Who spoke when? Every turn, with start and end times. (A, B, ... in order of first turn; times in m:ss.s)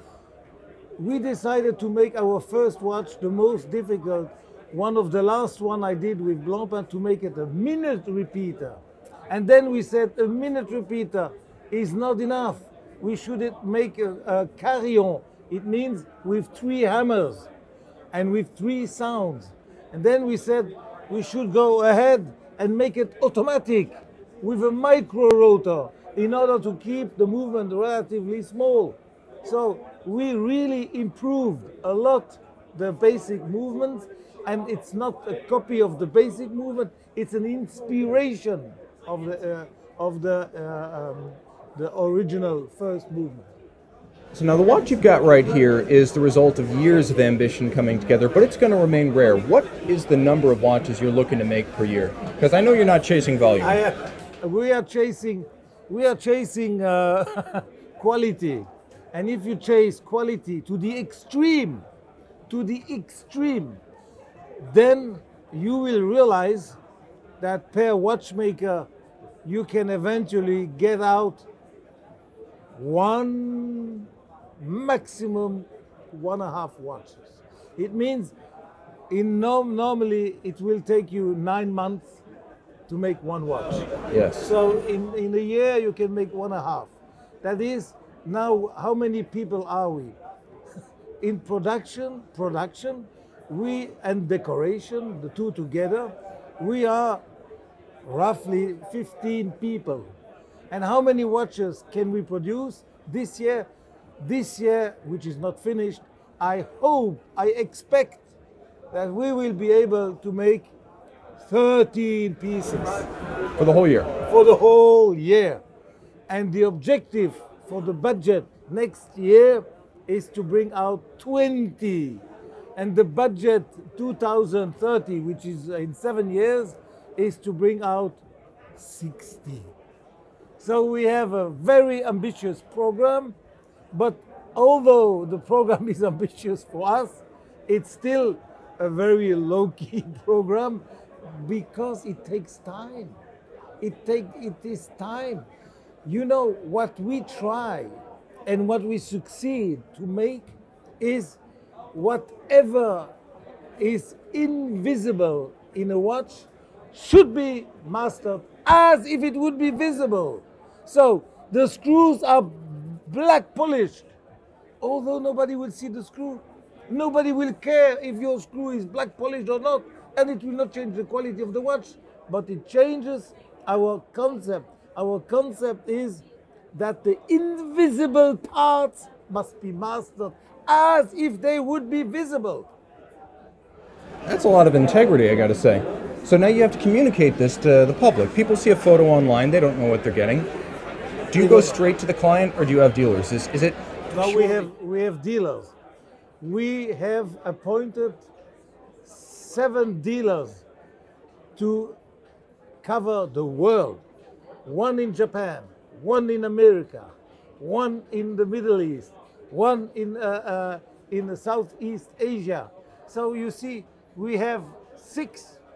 0:01.0-0:17.5 A
0:18.1-0:43.5 A
0:44.3-0:53.8 B
0:53.6-1:01.8 A
1:02.5-1:03.8 A
1:04.6-1:06.8 A
1:07.4-1:08.9 A
1:09.4-1:11.4 A
1:12.8-1:14.0 A
1:14.6-1:18.3 A
1:19.1-1:22.2 A
1:22.9-1:23.9 A
1:24.1-1:24.5 B
1:24.4-1:26.9 A
1:27.4-1:30.2 A
1:31.2-1:37.2 A
1:38.0-1:40.1 A
1:40.7-1:43.7 A
1:44.2-1:48.2 A
1:48.9-1:50.7 A
1:51.4-1:53.1 A
1:53.6-1:54.1 B
1:54.3-1:55.6 A
1:56.3-2:02.2 A
2:02.8-2:08.2 A
2:08.8-2:09.7 A
2:10.6-2:13.3 A
2:13.9-2:23.2 A
2:23.8-2:25.4 A
2:26.0-2:31.4 A
2:31.9-2:33.1 A
2:33.8-2:44.1 A
2:44.8-2:56.2 A
2:56.7-3:02.7 A
3:04.2-3:10.5 B
3:11.3-3:14.7 B
3:11.3-3:11.8 A
3:14.1-3:15.7 A
3:16.4-3:18.2 A
3:19.0-3:20.6 A
3:21.6-3:22.0 A
3:22.8-3:24.0 A
3:24.6-3:35.6 A